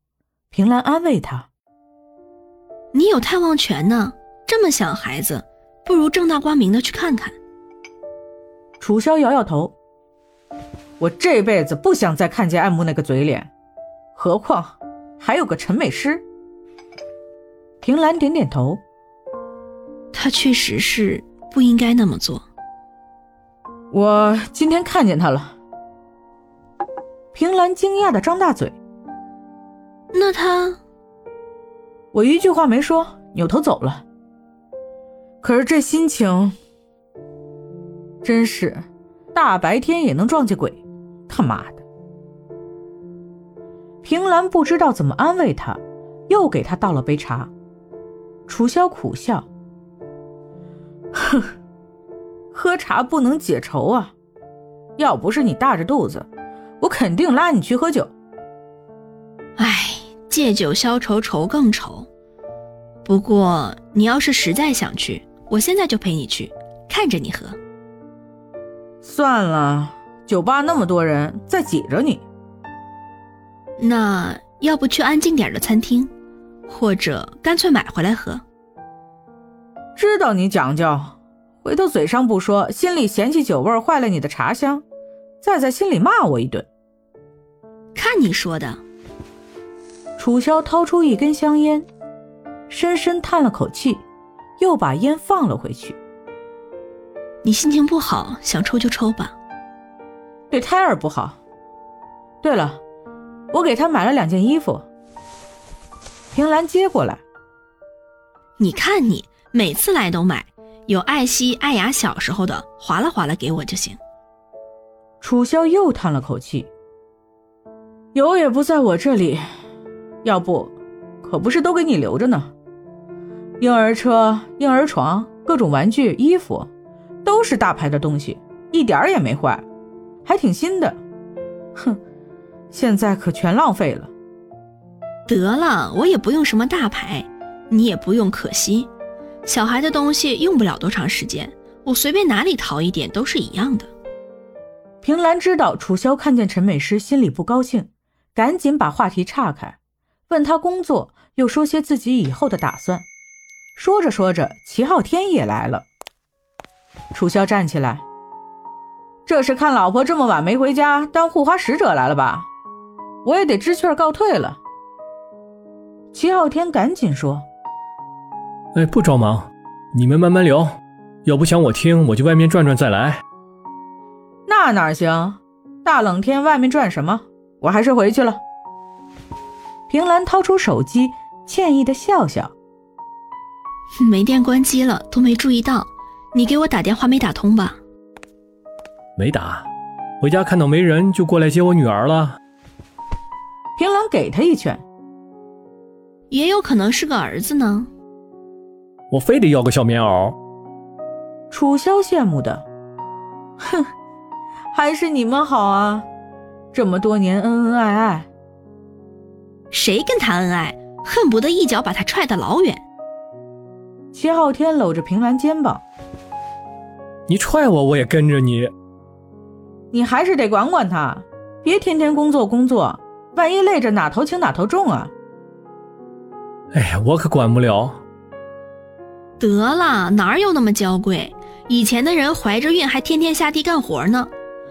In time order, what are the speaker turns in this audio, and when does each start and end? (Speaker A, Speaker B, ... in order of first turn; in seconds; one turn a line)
Speaker A: 0.5-1.5
Speaker B: 2.9-7.3
Speaker A: 8.8-9.7
Speaker A: 11.0-13.5
Speaker A: 14.2-16.2
Speaker A: 17.8-18.8
Speaker B: 20.1-22.4
Speaker A: 23.9-25.6
Speaker A: 27.3-28.8
Speaker B: 30.1-30.8
Speaker A: 32.1-34.0
Speaker A: 35.4-36.5
Speaker A: 38.2-41.8
Speaker A: 44.0-47.5
Speaker A: 48.5-49.5
Speaker A: 52.5-54.1
Speaker A: 55.0-56.3
Speaker A: 56.8-58.1
Speaker B: 59.6-62.1
Speaker B: 63.0-67.6
Speaker A: 69.0-72.2
Speaker B: 73.8-76.1
Speaker B: 76.7-78.4
Speaker A: 80.0-84.8
Speaker A: 85.4-86.7
Speaker B: 87.9-88.8
Speaker A: 90.2-91.8
Speaker A: 92.7-94.0
Speaker A: 94.6-96.0
Speaker B: 97.4-99.3
Speaker A: 100.5-101.4
Speaker A: 102.4-102.8
Speaker A: 103.5-104.8
Speaker A: 106.3-107.2
Speaker B: 108.6-114.0
Speaker A: 115.2-116.7
Speaker A: 118.1-119.5
Speaker A: 120.2-122.5
Speaker A: 123.6-126.7
Speaker A: 127.2-129.7
Speaker A: 130.2-131.0
Speaker A: 132.7-134.1
Speaker B: 135.3-138.9
Speaker B: 139.4-143.9
Speaker A: 145.0-149.8
Speaker A: 150.3-153.1
Speaker A: 153.8-155.8
Speaker A: 157.1-158.0
Speaker A: 159.2-162.5
Speaker A: 163.2-164.6
Speaker A: 166.1-167.4
Speaker C: 168.7-173.2
Speaker A: 174.5-178.4
Speaker A: 179.9-182.5
Speaker B: 184.0-187.8
Speaker C: 189.2-189.6
Speaker C: 190.2-192.4
Speaker A: 193.8-194.8
Speaker B: 196.3-197.9
Speaker C: 199.1-200.4
Speaker A: 201.5-202.7
Speaker A: 203.6-203.9
Speaker A: 204.7-206.1
Speaker A: 206.7-208.3
Speaker B: 209.7-212.8
Speaker A: 214.1-215.8
Speaker C: 217.3-218.7
Speaker A: 219.9-225.1
Speaker C: 226.7-228.0
Speaker B: 229.4-234.3